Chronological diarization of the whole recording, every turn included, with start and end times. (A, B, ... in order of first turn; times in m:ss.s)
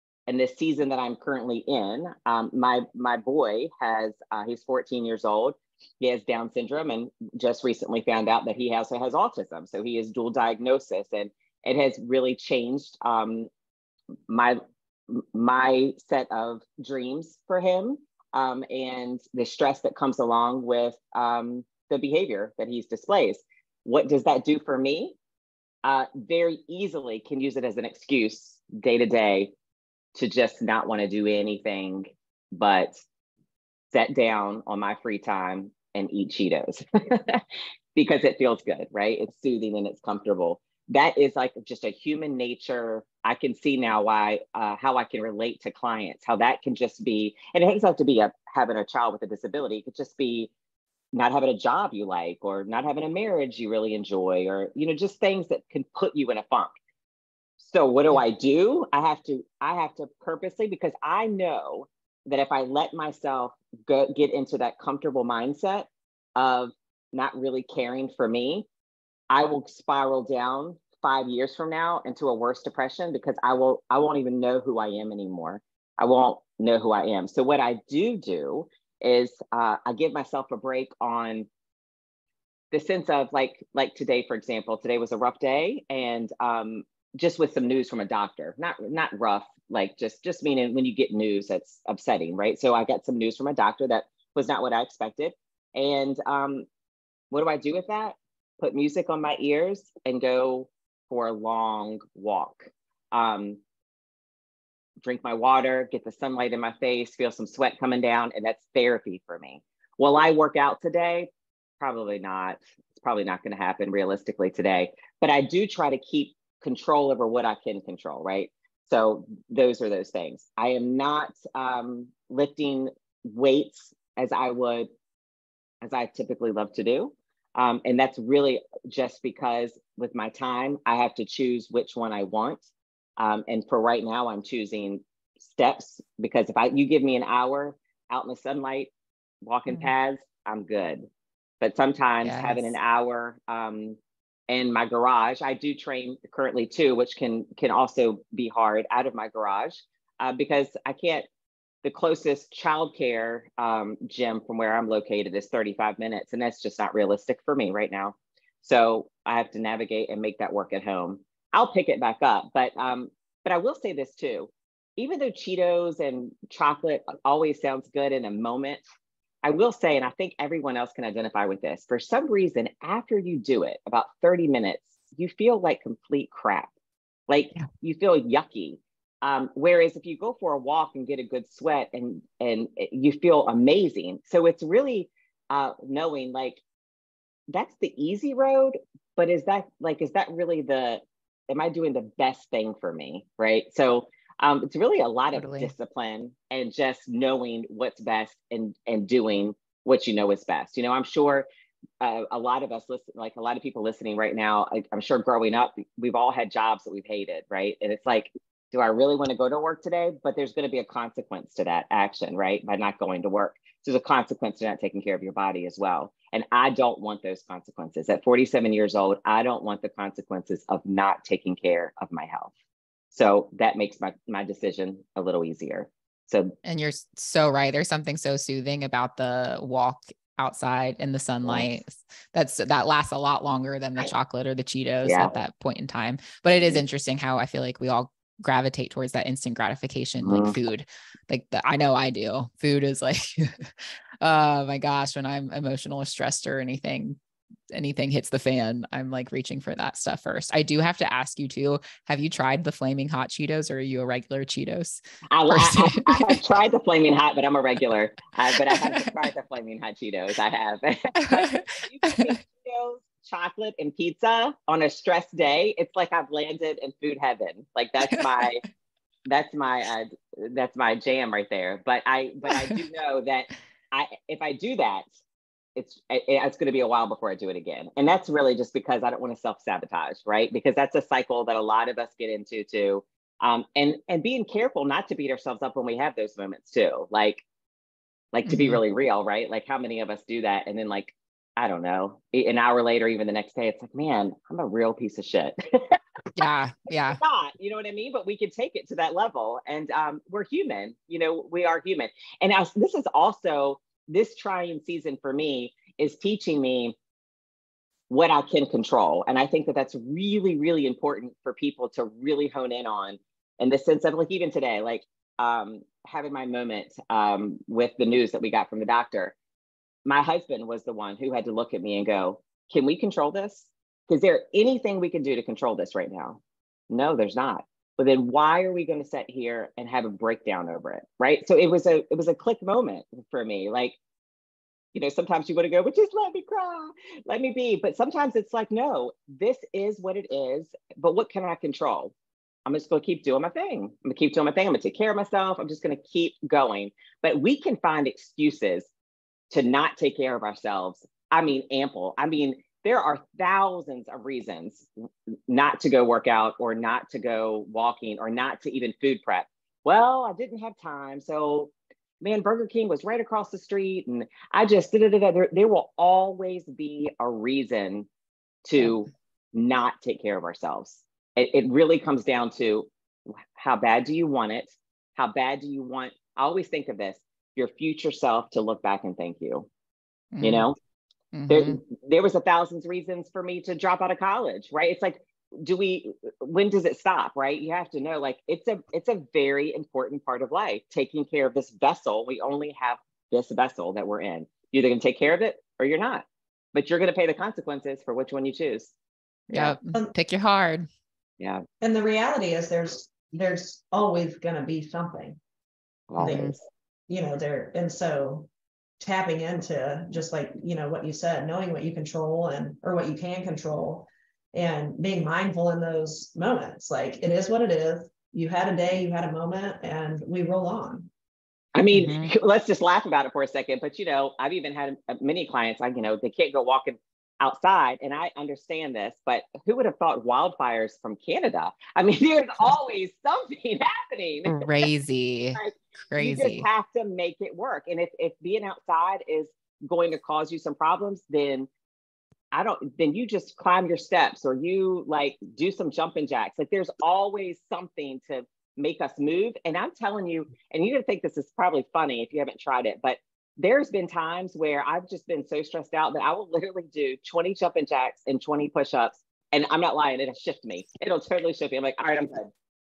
0:00.3-0:13.5 A
0:14.3-0:14.6 A
0:15.1-0:25.2 A
0:25.8-0:29.5 A
0:30.1-0:33.0 A
0:33.9-0:37.4 A
0:37.9-0:50.5 A
0:51.1-0:56.7 A
0:57.6-1:08.7 A
1:09.3-1:21.5 A
1:22.7-1:36.6 A
1:37.3-1:43.6 A
1:45.0-2:04.9 A
2:05.8-2:12.6 A
2:13.2-2:18.9 A
2:19.4-2:21.0 A
2:21.6-2:24.0 A
2:22.2-2:22.7 B
2:24.5-2:31.3 A
2:31.8-2:48.8 A
2:49.4-2:56.7 A
2:57.3-3:06.6 A
3:07.5-3:21.4 A
3:15.3-3:15.7 B
3:22.0-3:42.5 A
3:43.1-3:46.5 A
3:46.6-4:07.2 B
3:51.4-3:51.8 A
3:55.0-3:55.3 A
4:00.2-4:00.5 A
4:07.7-4:16.4 B
4:15.3-4:28.6 A
4:18.7-4:19.1 B
4:21.2-4:22.3 B
4:28.0-4:28.4 B
4:29.2-4:35.0 A
4:32.5-4:32.8 B
4:35.8-4:47.4 A
4:48.3-4:56.0 A
4:48.5-4:48.8 B
4:56.3-4:57.2 B
4:57.1-5:07.0 A
5:08.1-5:19.3 A
5:20.0-5:34.0 A
5:34.9-5:42.1 A
5:42.7-5:48.9 A
5:49.5-5:54.9 A
5:55.5-6:08.1 A
6:08.6-6:19.7 A
6:20.3-6:20.7 B
6:20.4-6:20.7 A
6:21.3-6:21.8 B
6:21.5-6:38.9 A
6:39.5-6:39.8 A
6:39.5-6:40.9 B
6:41.8-6:45.4 C
6:46.1-6:46.5 A
6:46.2-6:46.5 C
6:46.2-6:46.5 B
6:47.1-6:48.5 C
6:49.0-7:01.1 C
7:01.7-7:14.9 A
7:01.9-7:02.3 B
7:14.5-7:16.6 B
7:15.5-7:21.7 A
7:22.5-7:42.5 A